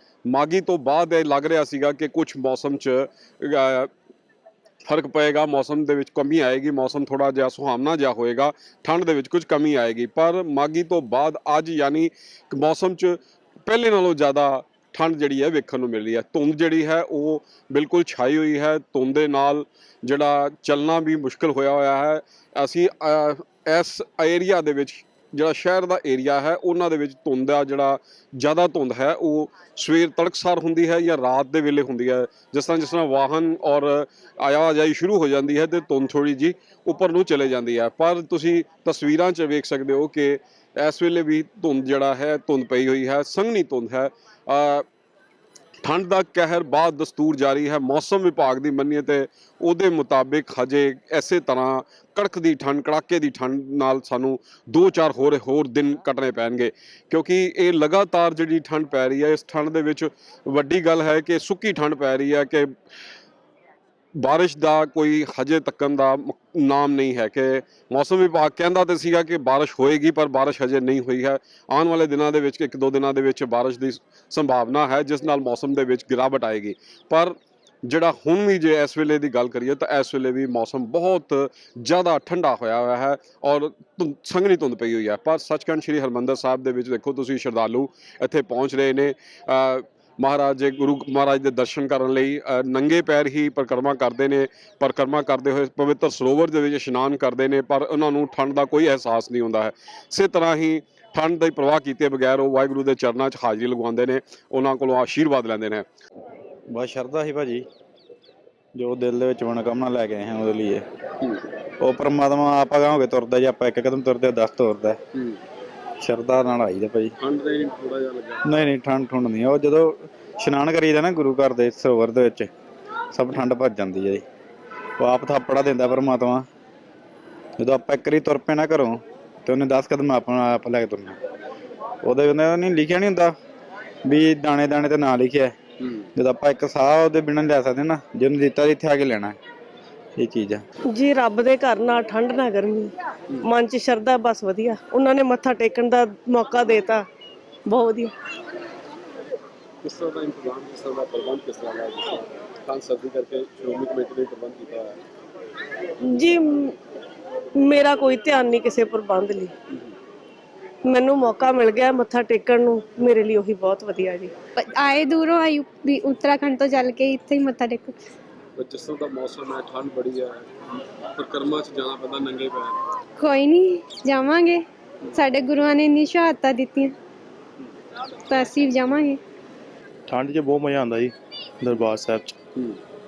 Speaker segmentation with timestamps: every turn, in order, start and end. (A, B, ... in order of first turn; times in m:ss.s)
0:00.3-0:03.9 A
0:04.8-0:44.8 A
0:45.8-1:02.7 A
1:04.2-1:45.8 A
1:46.7-1:47.6 B
1:48.8-1:50.8 B
1:51.8-1:55.0 B
1:56.0-1:57.1 B
1:57.2-1:58.6 A
1:58.4-2:02.5 B
2:03.1-2:04.2 B
2:05.0-2:06.4 B
2:07.6-2:11.2 B
2:12.0-2:13.3 B
2:14.0-2:15.5 B
2:16.2-2:19.4 B
2:20.2-2:20.6 B
2:21.1-2:22.9 C
2:23.6-2:27.0 C
2:27.7-2:28.1 C
2:29.8-2:35.0 A
2:37.7-2:39.4 C
2:40.9-2:44.3 C
2:44.6-2:48.0 D
2:48.6-2:52.8 A
2:53.2-2:57.0 D
2:58.3-2:59.2 D
3:00.1-3:02.3 E